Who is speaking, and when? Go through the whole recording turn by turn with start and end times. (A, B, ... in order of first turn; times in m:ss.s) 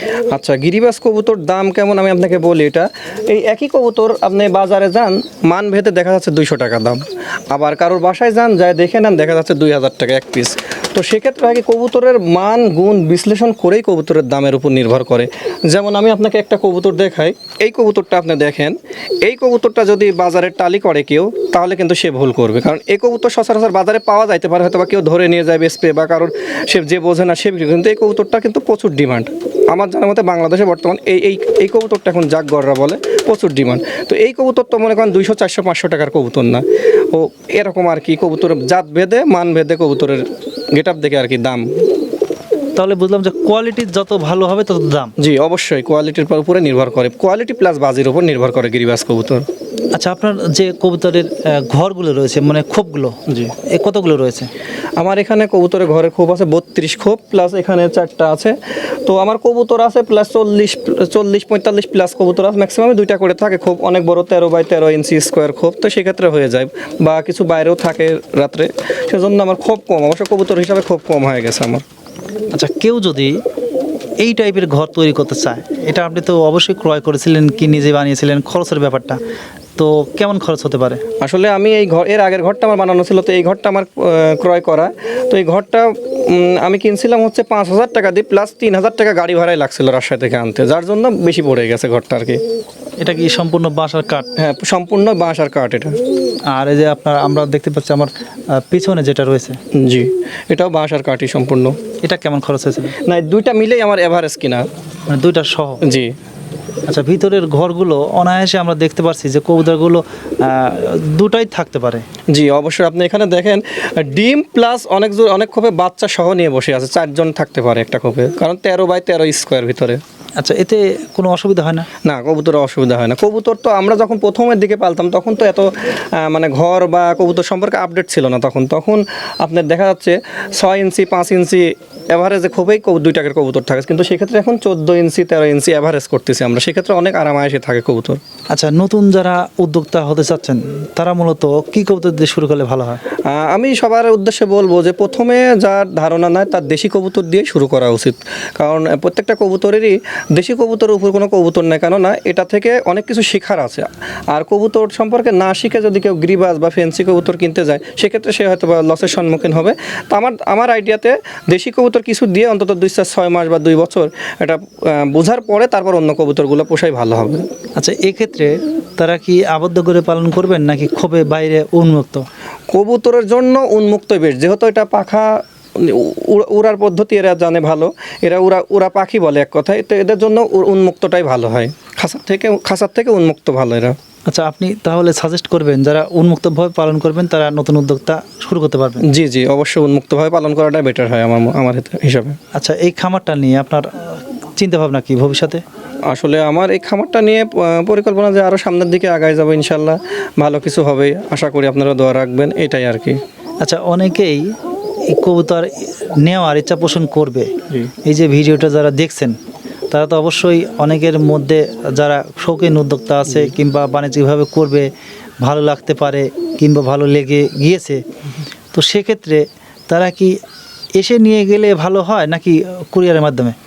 0:00.3-0:41.7 A
0:42.8-0:45.1 B
0:45.2-0:49.4 A
0:49.9-0:53.2 B
0:53.3-0:53.5 A
0:53.7-0:54.5 B
0:55.0-1:11.8 A
1:12.5-1:13.4 B
1:14.2-1:19.2 B
1:19.8-1:21.0 B
1:21.2-1:32.4 A
1:33.0-1:34.3 B
1:34.4-1:36.0 A
1:36.5-1:39.6 B
1:39.7-1:41.8 A
1:42.0-1:42.9 B
1:43.0-1:44.6 A
1:45.1-1:45.8 B
1:45.8-1:46.1 A
1:46.9-1:52.0 B
1:52.3-2:00.0 A
2:00.4-2:01.9 B
2:02.0-2:18.2 A
2:18.5-2:23.0 B
2:23.3-2:47.4 A
2:47.8-2:52.2 B
2:52.7-3:04.0 A
3:04.3-3:09.0 B
3:09.0-3:12.4 A
3:12.5-3:15.6 B
3:16.1-3:23.2 A
3:23.6-3:24.5 B
3:25.1-3:27.5 B
3:28.0-3:29.4 B
3:29.9-3:34.9 B
3:35.4-3:38.0 B
3:38.7-3:40.4 B
3:41.0-3:43.5 B